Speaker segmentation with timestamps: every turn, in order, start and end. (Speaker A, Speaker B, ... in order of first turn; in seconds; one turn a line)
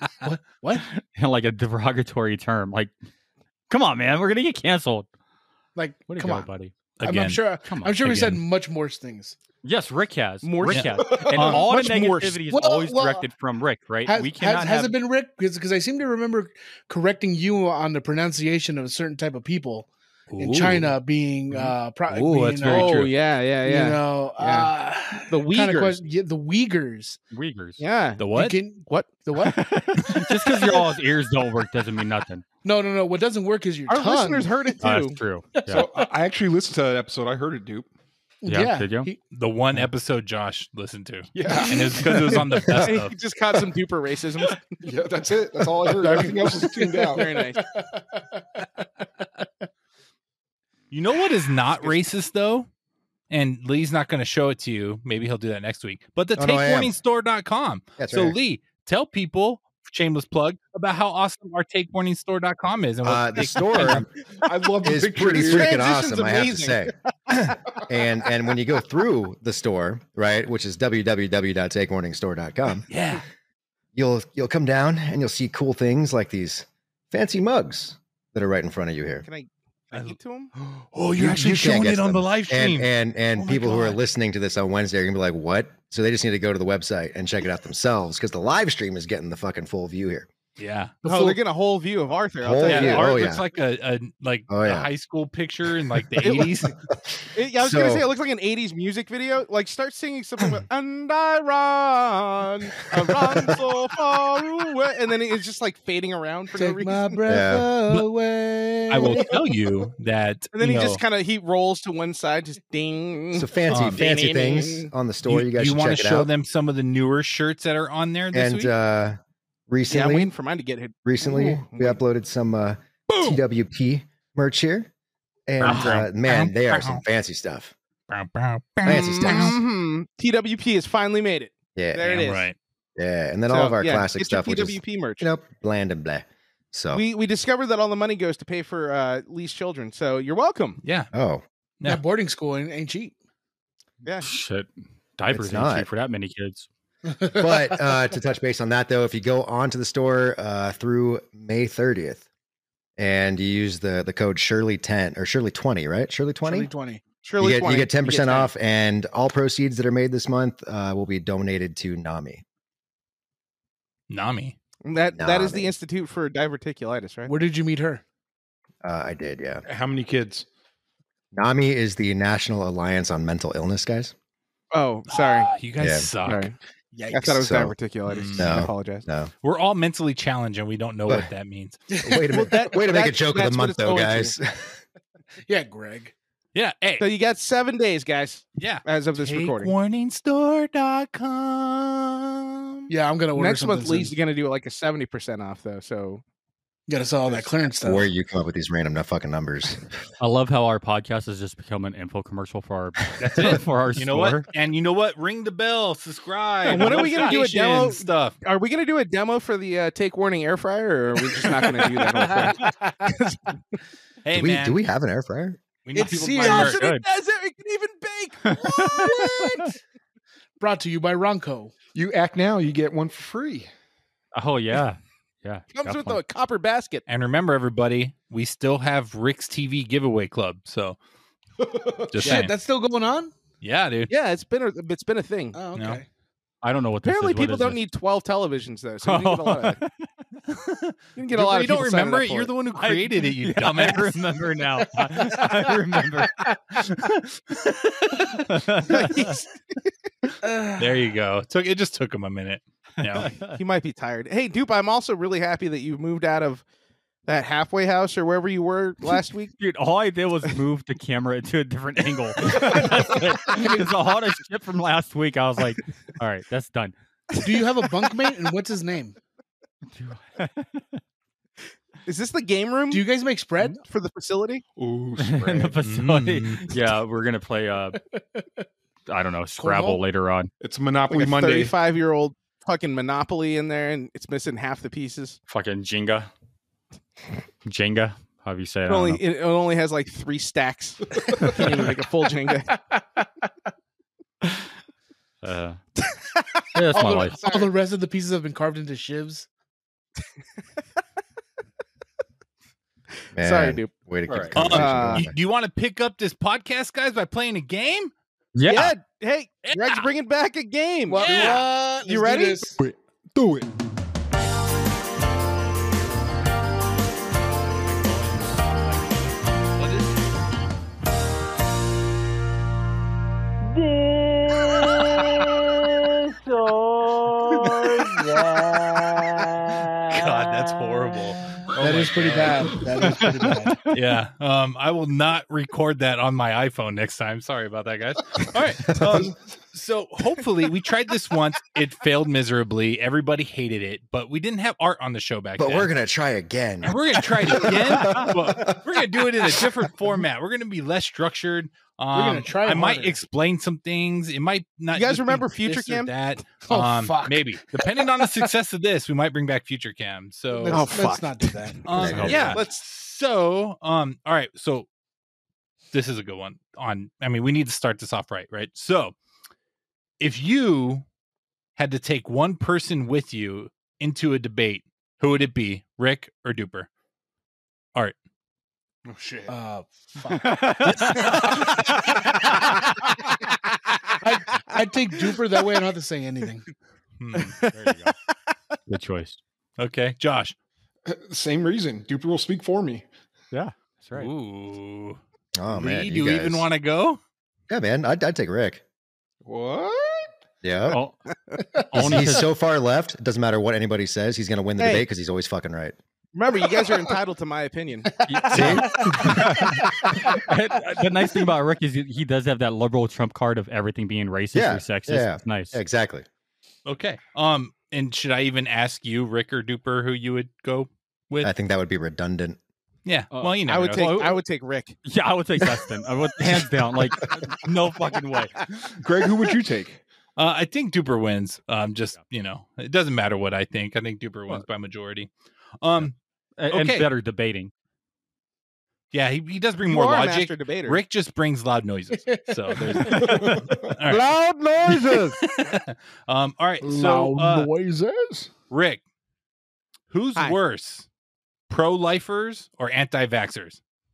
Speaker A: 0.2-0.8
Speaker B: 0.8-2.9
Speaker B: 3.7-5.1
Speaker A: 5.8-6.5
Speaker B: 6.1-6.7
Speaker C: 7.0-7.4
Speaker A: 7.0-9.3
Speaker B: 7.6-8.3
Speaker C: 8.0-8.4
Speaker B: 9.6-14.9
Speaker D: 10.4-12.3
Speaker C: 10.7-11.7
Speaker E: 11.0-11.6
Speaker A: 12.4-13.3
Speaker A: 14.1-23.0
Speaker C: 20.3-20.9
Speaker C: 21.5-23.1
Speaker D: 22.6-24.7
Speaker A: 23.6-27.2
Speaker D: 25.3-26.0
Speaker B: 27.3-27.8
Speaker D: 27.8-28.3
Speaker C: 28.2-28.6
Speaker A: 28.3-29.6
Speaker D: 28.9-29.2
Speaker B: 29.4-32.4
Speaker A: 32.6-34.8
Speaker D: 33.9-35.1
Speaker B: 34.8-35.9
Speaker A: 35.5-36.0
Speaker E: 35.7-37.9
Speaker A: 38.4-39.2
Speaker B: 38.5-39.1
Speaker C: 39.3-43.1
Speaker E: 41.3-42.3
Speaker D: 42.8-44.7
Speaker E: 44.8-47.3
Speaker A: 45.9-49.4
Speaker D: 47.1-47.6
Speaker C: 50.9-52.7
Speaker C: 53.3-64.0
Speaker F: 56.4-56.9
Speaker F: 58.0-58.4
Speaker F: 63.0-64.1
Speaker E: 64.4-65.8
Speaker F: 64.8-72.9
Speaker D: 65.2-67.5
Speaker C: 72.9-73.2
Speaker F: 73.9-79.2
Speaker D: 79.2-80.5
Speaker C: 79.9-84.0
Speaker F: 81.1-90.3
Speaker C: 90.6-91.3
Speaker D: 91.0-93.3
Speaker F: 92.4-93.4
Speaker C: 92.6-96.7
Speaker F: 94.5-94.9
Speaker D: 96.2-96.5
Speaker F: 96.3-98.1
Speaker D: 97.3-107.2
Speaker A: 106.6-109.3
Speaker F: 107.3-107.7
Speaker C: 108.9-111.0
Speaker D: 110.5-114.9
Speaker F: 113.3-116.3
Speaker C: 113.7-114.0
Speaker C: 115.2-118.7
Speaker F: 118.3-120.3
Speaker D: 119.9-122.0
Speaker F: 121.0-124.9
Speaker A: 121.3-121.6
Speaker F: 125.5-127.7
Speaker C: 125.6-127.0
Speaker D: 125.6-125.9
Speaker C: 128.1-129.6
Speaker F: 128.8-129.6
Speaker D: 128.9-132.4
Speaker F: 131.8-132.3
Speaker C: 132.1-132.6
Speaker F: 133.0-137.0
Speaker D: 133.5-135.3
Speaker D: 136.9-140.8
Speaker C: 140.8-141.1
Speaker F: 141.1-141.4
Speaker A: 141.8-143.1
Speaker D: 144.0-144.3
Speaker B: 144.2-146.7
Speaker F: 145.3-145.9
Speaker A: 147.1-147.8
Speaker F: 147.3-152.2
Speaker F: 153.0-156.7
Speaker A: 156.4-157.0
Speaker D: 157.2-158.5
Speaker F: 157.4-162.4
Speaker C: 164.1-164.5
Speaker D: 164.8-167.3
Speaker F: 165.1-165.7
Speaker A: 167.3-168.0
Speaker F: 168.8-169.6
Speaker E: 169.7-170.4
Speaker F: 171.3-174.1
Speaker D: 174.7-175.5
Speaker C: 175.1-176.5
Speaker F: 175.8-176.1
Speaker D: 176.2-176.5
Speaker A: 176.9-177.4
Speaker D: 177.1-179.0
Speaker F: 177.3-177.7
Speaker C: 178.1-178.7
Speaker F: 178.3-179.3
Speaker C: 179.4-181.8
Speaker A: 181.9-182.4
Speaker F: 182.0-184.8
Speaker D: 182.3-184.3
Speaker A: 185.5-186.1
Speaker C: 186.5-187.1
Speaker D: 187.0-189.7
Speaker C: 188.6-192.9
Speaker A: 192.9-194.2
Speaker D: 193.3-196.2
Speaker A: 196.9-198.1
Speaker F: 197.8-199.8
Speaker B: 200.2-204.5
Speaker C: 203.2-208.3
Speaker D: 206.7-213.6
Speaker A: 212.2-212.9
Speaker C: 214.2-214.8
Speaker F: 214.3-215.6
Speaker C: 215.8-216.8
Speaker A: 215.9-216.8
Speaker D: 216.3-219.7
Speaker B: 216.5-217.0
Speaker B: 218.4-219.6
Speaker A: 220.6-221.7
Speaker E: 221.9-223.7
Speaker B: 224.3-226.2
Speaker D: 225.7-227.0
Speaker C: 227.1-231.0
Speaker E: 231.6-232.2
Speaker C: 232.1-232.5
Speaker A: 232.2-233.3
Speaker D: 232.2-232.5
Speaker C: 233.6-234.1
Speaker D: 234.1-235.6
Speaker A: 235.5-236.1
Speaker C: 235.7-236.0
Speaker B: 236.6-237.8
Speaker D: 237.0-239.8
Speaker B: 239.0-240.1
Speaker C: 240.5-244.2
Speaker D: 241.2-242.5
Speaker B: 242.8-246.3
Speaker A: 245.2-245.7
Speaker C: 246.8-248.4
Speaker B: 248.4-249.2
Speaker D: 248.9-249.9
Speaker A: 250.4-250.9
Speaker C: 250.8-253.3
Speaker B: 253.0-253.6
Speaker D: 253.6-256.6
Speaker D: 257.2-259.5
Speaker B: 259.6-266.9
Speaker A: 263.5-263.9
Speaker A: 267.4-269.1
Speaker B: 269.9-271.0
Speaker D: 272.1-273.1
Speaker A: 272.9-273.8
Speaker D: 273.8-274.6
Speaker E: 274.8-275.8
Speaker B: 275.2-278.0
Speaker C: 275.8-276.7
Speaker A: 278.0-278.6
Speaker B: 279.1-280.5
Speaker A: 279.6-280.0
Speaker E: 280.6-281.7
Speaker D: 281.1-285.4
Speaker B: 285.5-286.3
Speaker B: 287.6-289.2
Speaker D: 288.9-292.7
Speaker A: 292.9-293.2
Speaker B: 295.4-295.8
Speaker D: 296.0-297.7
Speaker B: 296.7-297.4
Speaker A: 296.9-299.5
Speaker F: 303.3-305.3
Speaker D: 303.4-303.9
Speaker C: 304.5-308.1
Speaker D: 304.6-305.3
Speaker B: 308.5-308.9
Speaker D: 308.7-312.6
Speaker C: 309.7-310.1
Speaker A: 311.1-312.8
Speaker C: 311.2-311.6
Speaker E: 312.8-313.7
Speaker C: 318.0-319.0
Speaker C: 319.8-320.2
Speaker C: 330.0-332.7
Speaker A: 331.8-333.9
Speaker C: 333.9-345.9
Speaker E: 339.0-339.3
Speaker F: 345.6-349.4
Speaker C: 346.8-360.9
Speaker A: 352.1-353.2
Speaker D: 354.9-356.1
Speaker A: 356.6-358.0
Speaker A: 360.5-362.5
Speaker D: 360.7-361.7
Speaker C: 361.8-364.9
Speaker F: 361.9-362.6
Speaker B: 362.1-362.5
Speaker D: 362.2-362.8
Speaker C: 365.9-369.1
Speaker C: 370.2-371.0
Speaker C: 371.8-376.9
Speaker E: 379.1-379.5
Speaker A: 379.5-380.9
Speaker B: 380.3-381.7
Speaker C: 380.9-381.8
Speaker A: 384.2-386.6
Speaker C: 387.2-387.5
Speaker D: 387.3-387.7
Speaker B: 387.7-388.1
Speaker B: 388.9-389.4
Speaker C: 389.8-390.5
Speaker E: 391.1-393.1
Speaker B: 393.5-394.3
Speaker C: 394.1-397.2
Speaker F: 395.6-396.7
Speaker F: 397.7-398.8
Speaker E: 399.4-400.3
Speaker F: 400.6-401.0
Speaker B: 400.9-401.1
Speaker B: 401.9-402.5
Speaker F: 401.9-405.9
Speaker D: 404.8-405.1
Speaker D: 406.3-408.7
Speaker A: 408.1-410.3
Speaker B: 408.3-415.8
Speaker F: 408.5-409.1
Speaker F: 414.5-416.2
Speaker C: 416.9-421.5
Speaker F: 421.4-422.6
Speaker C: 423.0-424.3
Speaker B: 423.3-424.4
Speaker D: 423.6-424.9
Speaker B: 425.0-428.5
Speaker E: 429.0-430.0
Speaker C: 430.4-435.3
Speaker C: 435.8-436.1
Speaker B: 436.6-437.7
Speaker C: 436.7-437.1
Speaker C: 439.1-444.3
Speaker D: 439.9-441.0
Speaker A: 442.3-443.4
Speaker E: 443.1-443.9
Speaker A: 444.1-445.4
Speaker C: 444.8-447.7
Speaker A: 446.8-448.5
Speaker C: 448.7-449.0
Speaker C: 450.1-451.1
Speaker C: 451.7-453.8